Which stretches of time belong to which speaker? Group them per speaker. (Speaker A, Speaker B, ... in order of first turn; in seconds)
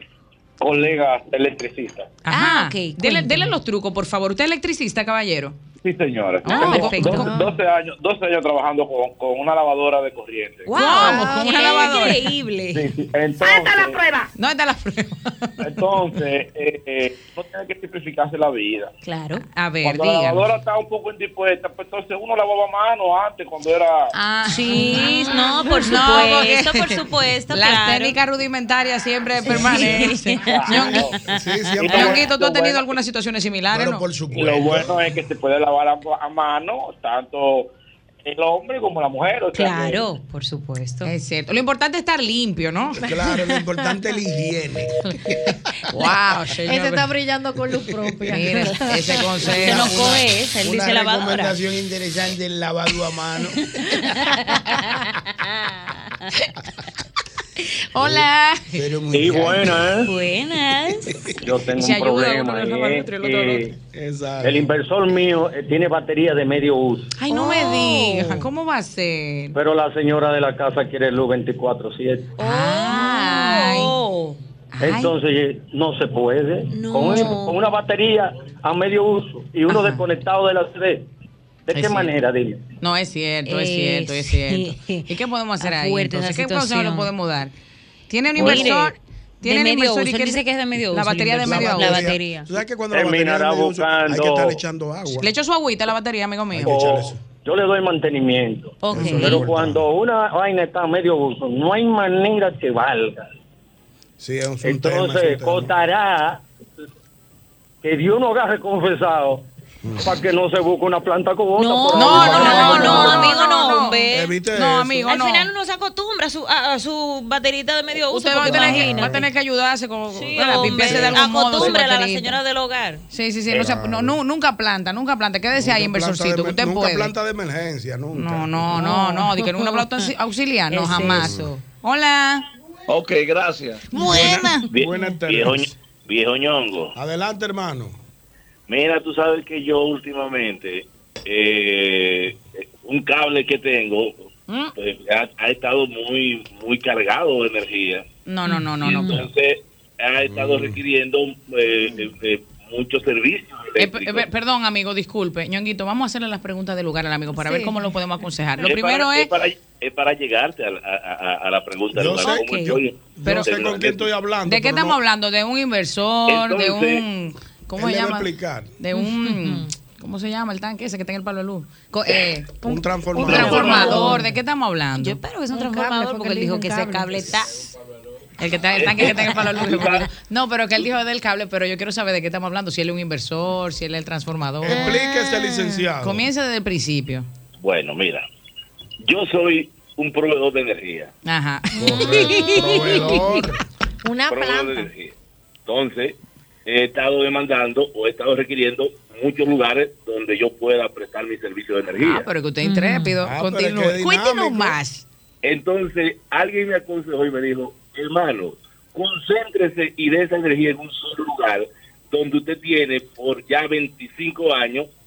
Speaker A: 0.6-2.2, 5.8-10.8, 12.7-14.2, 15.6-18.9, 19.8-24.1, 30.5-31.1, 31.8-32.9, 34.3-37.7, 38.2-40.0
Speaker B: 2.2-5.5, 6.4-7.4, 10.7-12.2, 14.3-15.5, 19.5-20.4, 24.1-27.0, 27.5-31.1, 31.8-34.0, 41.0-43.1, 45.9-47.1, 48.3-50.0, 57.9-58.7, 61.8-63.6, 67.2-69.5, 72.4-74.0, 74.7-75.1, 79.7-80.0, 81.7-82.1, 82.8-87.5, 88.1-92.1, 95.2-96.8, 98.8-99.4, 111.9-114.0, 114.5-115.5, 118.1-122.4, 123.1-127.1, 128.1-132.4, 133.9-134.7, 148.2-149.2, 153.8-159.3, 164.5-172.5, 173.2-175.2, 178.4-184.9, 186.0-187.3, 191.2-193.2, 202.0-205.0
Speaker C: 2.3-3.5, 6.5-7.5, 10.7-12.8, 19.0-19.4, 24.4-28.2, 29.4-32.2, 39.5-41.1, 49.5-51.6, 53.9-54.7, 55.3-56.1, 60.0-61.1, 67.3-68.5, 72.4-74.4, 76.7-77.6, 83.5-87.1, 88.3-92.5, 98.9-99.4, 111.6-114.3, 115.0-119.3, 120.1-123.0, 128.7-130.1, 130.7-131.6, 134.1-134.5, 148.4-149.2, 162.2-162.8, 168.9-169.7, 173.2-174.2, 175.0-177.7, 202.6-203.2
Speaker D: 31.2-32.3, 33.7-34.9, 43.0-45.3, 49.5-53.6, 58.0-60.0, 63.9-64.7, 91.4-95.3, 96.5-97.2, 98.9-99.8, 104.2-105.7, 109.8-110.1, 112.4-113.1, 114.1-115.1, 118.5-119.2, 120.7-121.2, 123.5-124.2, 125.5-128.9, 131.0-131.5, 133.9-135.7, 136.9-137.9, 150.2-150.8, 161.9-165.0, 167.8-168.7, 172.6-174.2, 184.6-186.2, 191.8-193.6, 203.2-204.8
Speaker E: 46.6-49.5, 157.4-157.7, 172.7-174.2, 175.5-177.2, 184.8-185.8, 191.8-192.2, 194.0-194.9
Speaker F: 59.1-60.1, 61.4-63.7, 64.4-67.1, 69.5-72.3, 74.8-81.0, 81.7-82.6, 92.9-94.6, 96.6-103.3, 104.6-106.4, 107.8-109.4, 110.0-113.3
Speaker G: 132.9-133.4, 134.7-136.9, 138.7-148.0, 148.8-154.3, 158.6-164.1, 166.3-167.0, 178.7-180.1, 187.6-188.2, 189.0-191.1, 194.3-195.1, 195.7-202.3, 205.4-214.9